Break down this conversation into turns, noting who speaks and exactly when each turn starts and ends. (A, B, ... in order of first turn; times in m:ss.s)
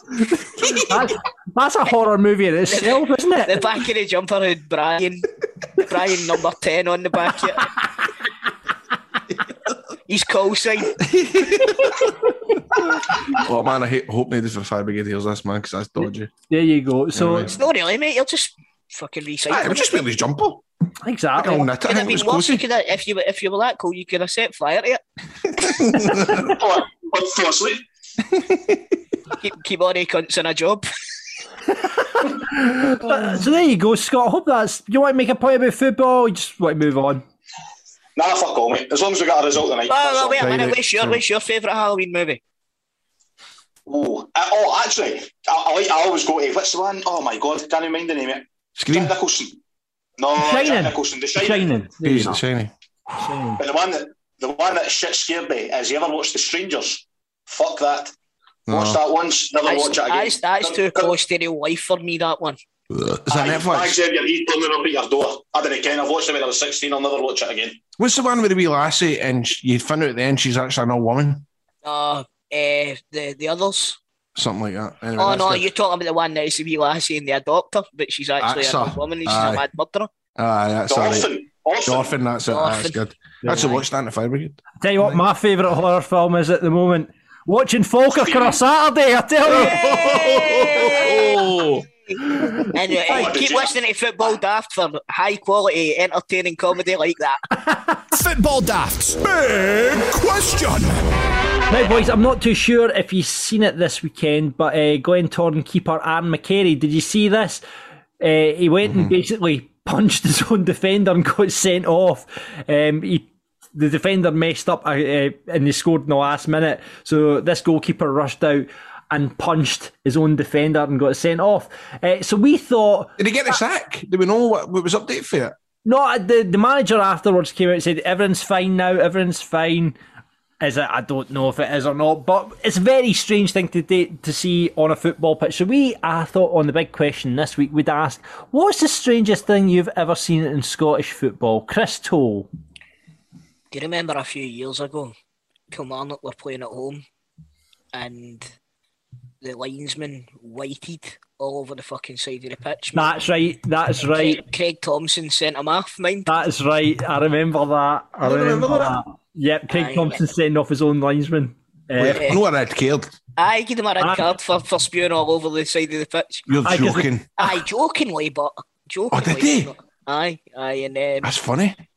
0:00.3-0:03.6 A
0:02.7-0:07.7 B
0:10.1-0:11.0 B
0:11.0-0:12.0 C
0:13.3-0:16.3 C
0:16.5-0:17.5 A
0:17.1-0:17.5 C
0:17.4-0:20.0 B
0:19.5-0:20.6 C
0:21.0-0:21.7 A
0:21.4-0:22.6 C
0:21.9-0:25.0 B
0:25.6-0:26.6 C
0:26.3-0:27.8 D
0:28.3-0:28.8 C
0:29.4-0:30.8 B
0:31.8-0:37.2 A
0:38.2-0:40.4 D
0:39.9-0:42.4 B
0:40.4-0:41.2 C
0:43.9-0:49.6 D
0:48.8-0:49.1 C
0:50.2-0:51.8 D
0:50.4-0:52.4 A
0:52.0-0:52.7 C
0:53.1-0:53.6 A
0:53.6-0:58.1 D
0:58.7-0:59.0 C
0:58.7-1:01.1 D
0:59.6-1:02.6 B
1:02.9-1:04.0 C
1:03.3-1:07.8 D
1:08.0-1:11.4 C
1:11.8-1:14.0 B
1:14.4-1:15.6 C
1:15.2-1:20.1 B
1:18.4-1:19.6 C
1:20.4-1:21.3 C
1:20.9-1:22.1 D
1:21.8-1:25.2 C
1:22.5-1:23.8 B
1:24.8-1:30.2 A
1:28.1-1:28.6 D
1:29.5-1:31.8 C
1:29.6-1:31.4 B
1:32.7-1:37.4 B
1:33.1-1:33.7 D
1:38.1-1:41.0 E
1:41.7-1:47.6 A
1:48.2-2:03.1 A
1:48.8-1:49.1 C
2:03.2-2:05.5 C
2:05.8-2:10.0 A
2:10.6-2:22.5 A
2:23.7-2:25.1 B
2:25.7-2:27.0 B
2:27.9-2:28.5 B
2:29.4-2:33.1 B
2:32.9-2:34.4 A
2:34.1-2:36.4 B
2:36.3-2:42.2 A
2:38.2-2:39.0 C
2:39.7-2:40.2 B
2:42.0-2:43.1 C
2:42.1-2:42.4 B
2:43.4-2:46.5 B
2:44.0-2:44.2 A
2:46.5-2:47.3 C
2:46.6-2:47.1 A
2:47.4-2:51.3 B
2:49.1-2:49.7 C
2:51.2-2:51.8 C